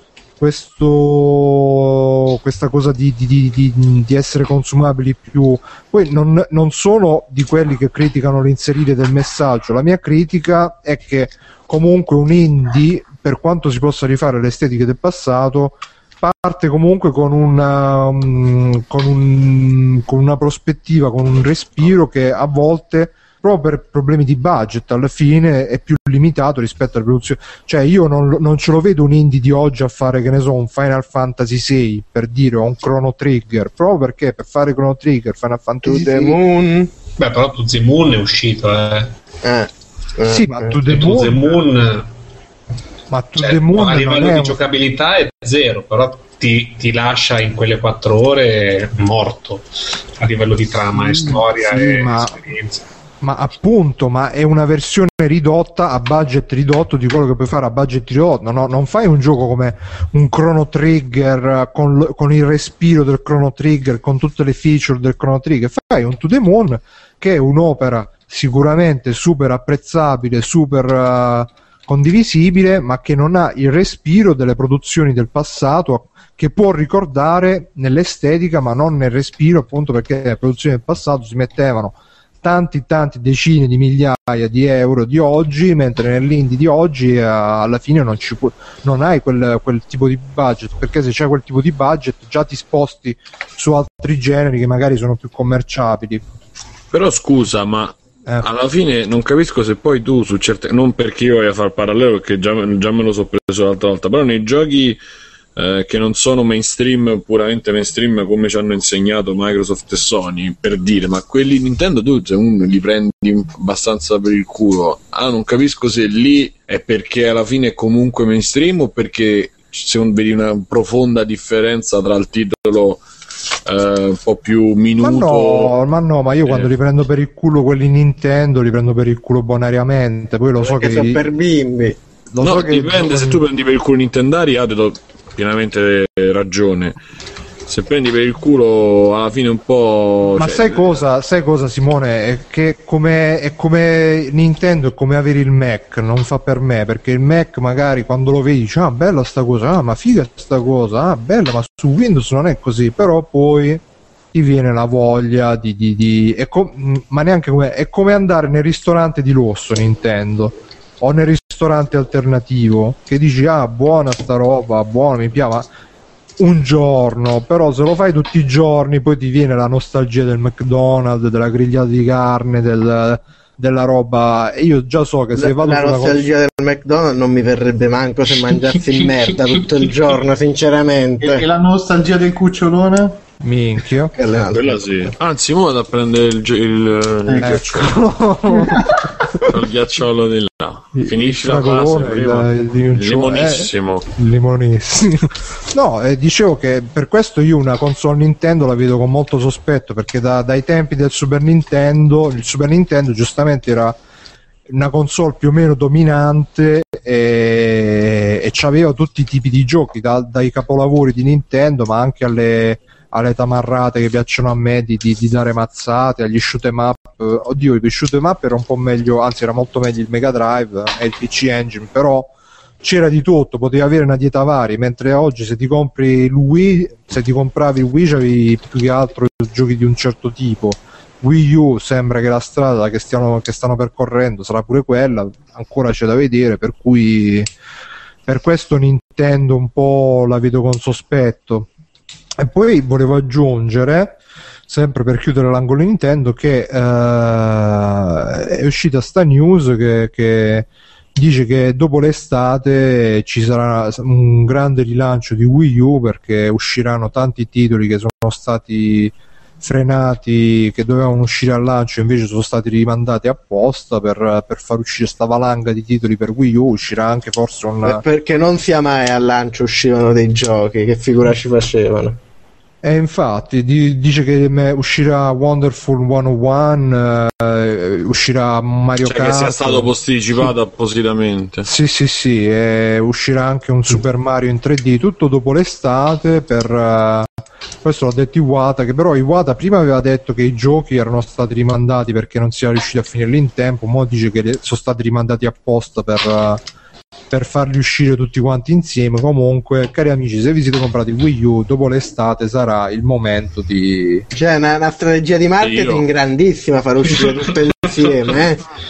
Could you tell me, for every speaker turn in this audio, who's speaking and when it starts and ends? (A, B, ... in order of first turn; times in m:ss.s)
0:00.4-0:36.4 A
0:35.8-0:36.9 B
0:37.2-0:39.2 C
0:39.4-0:40.8 B
0:40.3-0:41.5 A
0:40.8-0:42.1 C
0:43.1-0:44.6 A
0:43.4-0:49.7 C
0:50.2-0:52.8 C
0:51.0-0:52.4 A
0:53.2-1:36.2 A
1:36.9-1:45.0 D
1:45.6-2:03.0 D
2:03.7-2:05.7 D
2:05.0-2:11.2 A
2:10.6-2:12.0 B
2:12.3-2:13.4 A
2:12.4-2:17.0 D
2:17.7-2:21.0 D
2:20.4-2:33.8 A
2:34.3-2:45.7 A
2:46.4-2:56.3 A
2:55.4-3:01.5 B
3:01.2-3:03.2 E
3:03.4-3:04.1 A
3:04.1-3:05.1 B
3:04.5-3:08.0 D
3:07.3-3:07.6 E
3:07.4-3:08.9 A
3:08.6-3:09.1 E
3:09.4-3:14.0 D
3:11.0-3:24.0 A
3:24.7-3:57.5 A
3:58.3-4:01.7 A
4:02.4-4:04.2 A
4:04.7-4:28.0 A
4:27.8-4:32.2 B
4:32.8-4:39.9 A
4:39.0-4:41.7 D
4:41.6-4:47.3 A
4:47.8-4:56.6 A
4:57.3-5:04.3 A
5:04.4-5:08.7 B
5:05.6-5:06.1 D